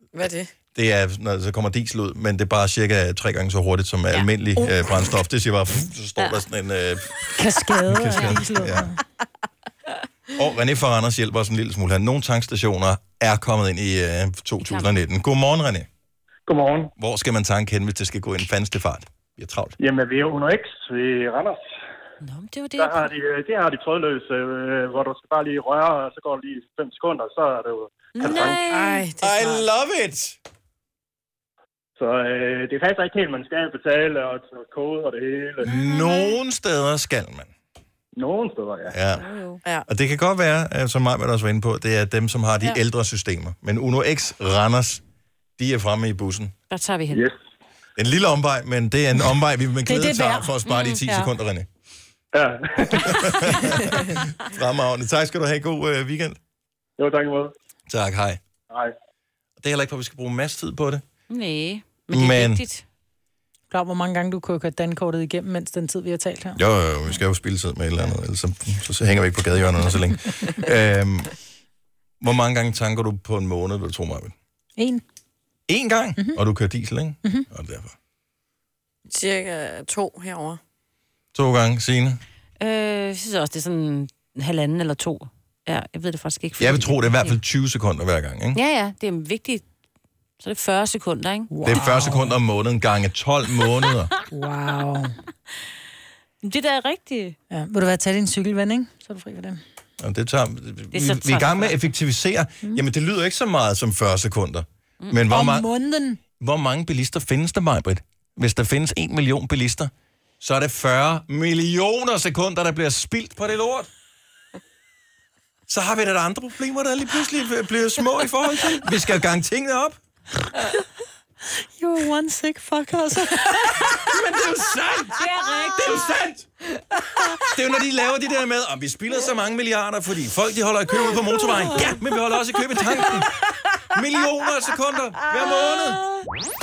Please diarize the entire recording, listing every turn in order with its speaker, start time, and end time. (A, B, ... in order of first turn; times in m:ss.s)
0:00.1-0:00.5 A
0:00.7-0:08.9 B
0:04.1-0:04.7 C
0:06.2-0:06.4 C
0:07.3-0:09.0 D
0:08.1-0:08.5 C
0:10.3-0:15.9 B
0:14.6-0:14.9 C
0:16.5-0:16.9 E
0:17.0-0:19.8 B
0:19.8-0:21.6 E
0:22.2-0:23.1 C
0:22.8-0:28.6 E
0:28.1-0:29.0 C
0:28.3-0:29.6 A
0:29.2-0:30.4 B
0:32.0-0:35.7 E
0:35.6-0:37.5 B
0:35.7-0:36.4 C
0:38.2-0:39.0 E
0:38.9-0:39.2 B
0:39.1-0:39.6 C
0:39.9-0:45.0 B
0:45.6-0:46.5 B
0:46.7-0:47.3 C
0:48.0-0:51.7 B
0:49.8-0:50.5 D
0:50.6-0:51.3 C
0:52.3-0:53.3 E
0:53.0-0:56.4 B
0:57.0-0:57.5 E
0:57.9-0:58.4 B
0:58.7-0:58.9 E
0:59.6-1:01.0 B
1:01.3-1:02.8 C
1:02.1-1:02.6 B
1:03.7-1:06.6 D
1:06.6-1:11.3 B
1:12.2-1:14.3 B
1:14.8-1:15.0 D
1:15.7-1:17.9 B
1:19.1-1:20.6 A
1:21.3-1:22.2 B
1:22.6-1:27.4 C
1:26.6-1:28.6 B
1:28.5-1:29.6 C
1:30.4-1:31.5 C
1:31.5-1:32.4 D
1:31.6-1:34.1 B
1:34.3-1:35.1 D
1:36.4-1:37.4 C
1:37.5-1:39.6 D
1:40.0-1:45.7 B
1:40.9-1:41.8 C
1:45.2-1:46.2 D
1:46.4-1:53.9 B
1:55.7-2:00.0 B
2:01.8-2:04.0 D
2:03.6-2:06.5 B
2:05.2-2:06.0 C
2:07.3-2:13.3 B
2:13.9-2:16.0 B